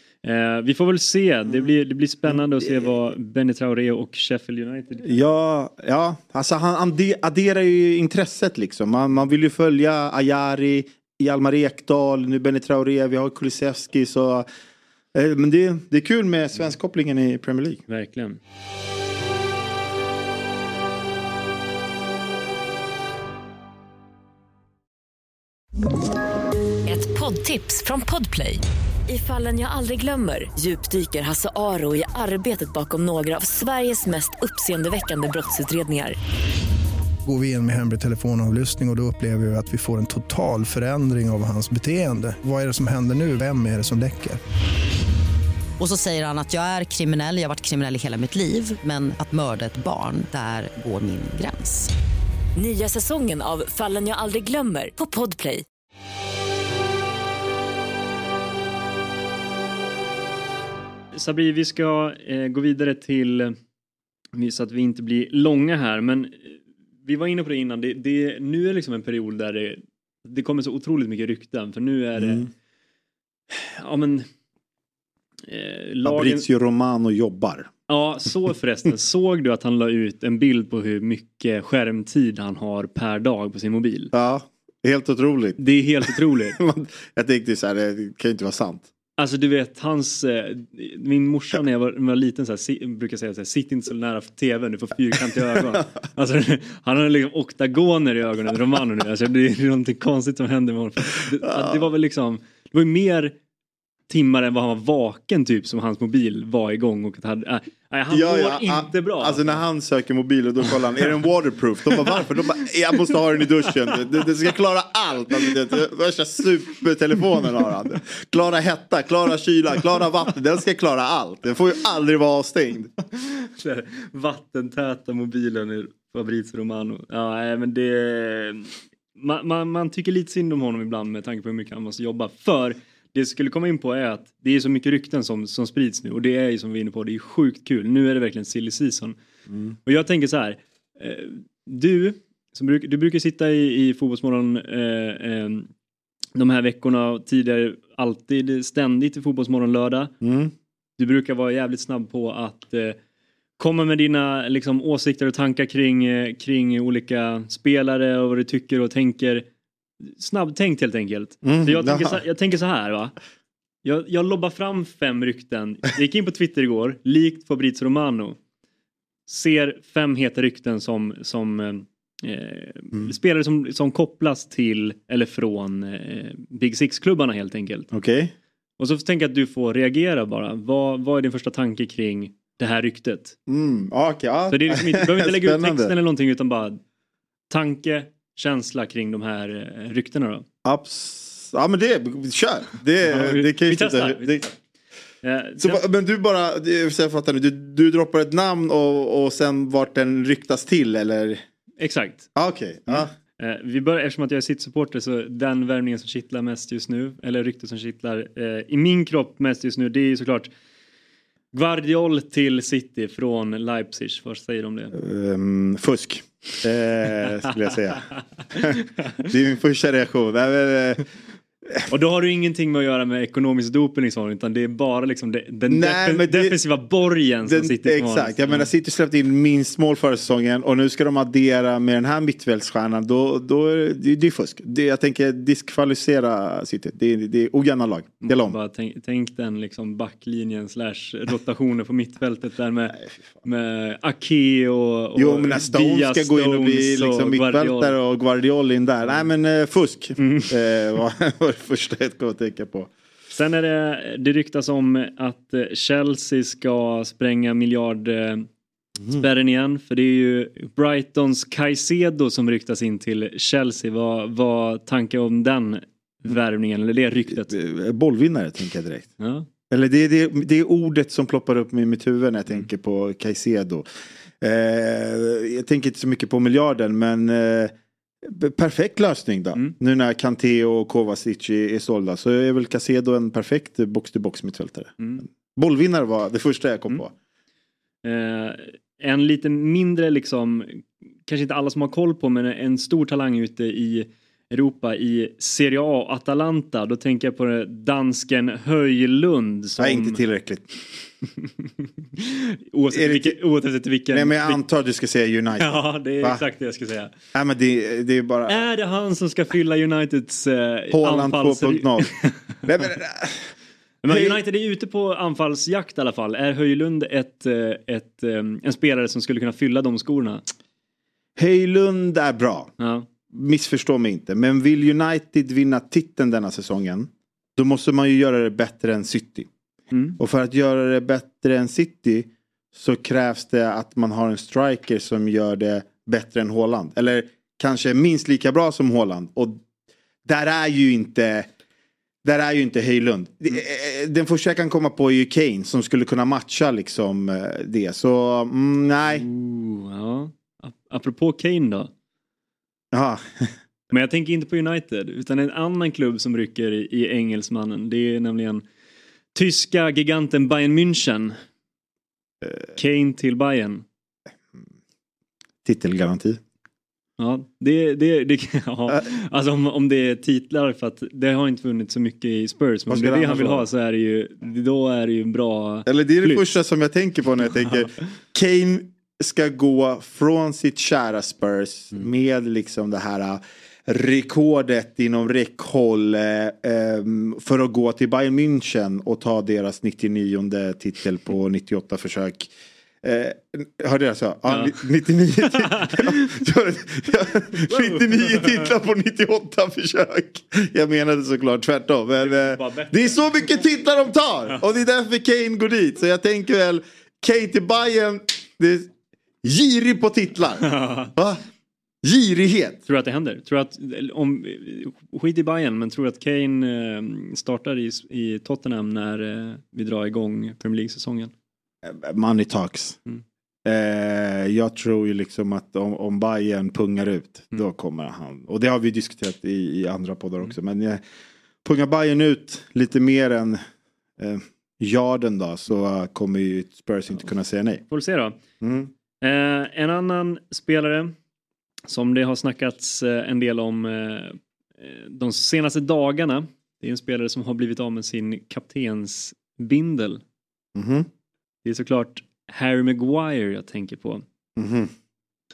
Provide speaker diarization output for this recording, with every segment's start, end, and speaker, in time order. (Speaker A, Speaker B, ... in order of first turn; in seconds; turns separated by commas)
Speaker A: 0.2-5.2, Speaker B: 5.0-14.5, Speaker B: 15.1-17.8, Speaker A: 17.9-18.4, Speaker C: 26.9-36.2, Speaker D: 37.2-44.4, Speaker E: 45.8-51.9, Speaker C: 52.6-55.6, Speaker A: 61.1-63.5, Speaker A: 64.3-72.5, Speaker B: 72.2-72.4, Speaker A: 73.5-74.3, Speaker A: 75.5-76.5, Speaker B: 76.0-77.7, Speaker A: 77.9-84.1, Speaker B: 84.1-88.9, Speaker A: 85.6-86.6, Speaker A: 89.2-103.3, Speaker B: 95.3-95.8, Speaker B: 101.4-101.8, Speaker A: 104.1-109.6, Speaker B: 108.1-122.9, Speaker A: 123.2-139.2, Speaker A: 139.8-145.7, Speaker A: 146.3-150.1, Speaker B: 150.2-150.5, Speaker A: 151.0-153.0, Speaker A: 153.6-159.4, Speaker A: 160.0-163.1, Speaker B: 161.4-162.2, Speaker A: 163.8-168.4, Speaker A: 169.3-177.9, Speaker B: 177.9-178.3, Speaker A: 178.8-183.3, Speaker B: 183.5-185.9, Speaker A: 184.5-186.8, Speaker A: 187.5-190.4, Speaker B: 190.6-194.5, Speaker A: 193.0-194.4, Speaker A: 195.2-195.8, Speaker B: 195.6-201.4, Speaker A: 201.8-202.3, Speaker B: 202.3-203.1, Speaker A: 202.9-210.5, Speaker A: 211.5-214.9, Speaker B: 214.9-221.1, Speaker A: 221.9-228.7, Speaker B: 225.7-226.6, Speaker B: 227.4-238.6, Speaker A: 238.2-247.9, Speaker B: 245.2-252.9, Speaker A: 250.2-250.5, Speaker A: 253.3-258.5, Speaker A: 259.1-267.5, Speaker B: 267.3-269.1, Speaker A: 269.2-269.5, Speaker B: 269.7-273.9, Speaker B: 274.4-287.1, Speaker A: 285.0-285.2, Speaker A: 288.0-300.2, Speaker B: 299.8-300.7, Speaker A: 301.4-304.6, Speaker B: 302.9-303.4, Speaker B: 304.1-306.4, Speaker A: 305.6-307.1, Speaker B: 307.3-308.6, Speaker A: 308.5-312.4, Speaker B: 310.9-313.5, Speaker A: 314.0-320.4, Speaker B: 314.1-314.4, Speaker B: 321.4-322.7, Speaker A: 322.8-323.1, Speaker B: 323.3-329.5, Speaker A: 329.9-330.2, Speaker B: 330.2-339.6, Speaker B: 340.2-341.5, Speaker B: 342.2-349.2, Speaker A: 349.1-351.9, Speaker B: 352.9-353.5, Speaker A: 353.9-358.6, Speaker A: 359.3-361.4, Speaker A: 362.8-363.8, Speaker B: 365.6-366.4, Speaker A: 367.2-376.4, Speaker B: 372.9-373.7, Speaker B: 375.9-408.9, Speaker A: 394.5-394.8, Speaker A: 395.7-396.1, Speaker A: 397.5-398.7, Speaker A: 402.2-403.2, Speaker B: 409.4-411.4, Speaker A: 410.7-411.1, Speaker B: 412.0-412.8, Speaker A: 412.9-421.3, Speaker B: 421.8-423.0, Speaker B: 423.6-431.0, Speaker B: 431.6-433.6, Speaker B: 434.2-437.8, Speaker A: 437.9-438.4, Speaker B: 438.6-438.9, Speaker A: 439.2-441.1, Speaker A: 441.9-450.2, Speaker B: 450.7-451.1, Speaker A: 451.6-454.2, Speaker B: 454.6-454.9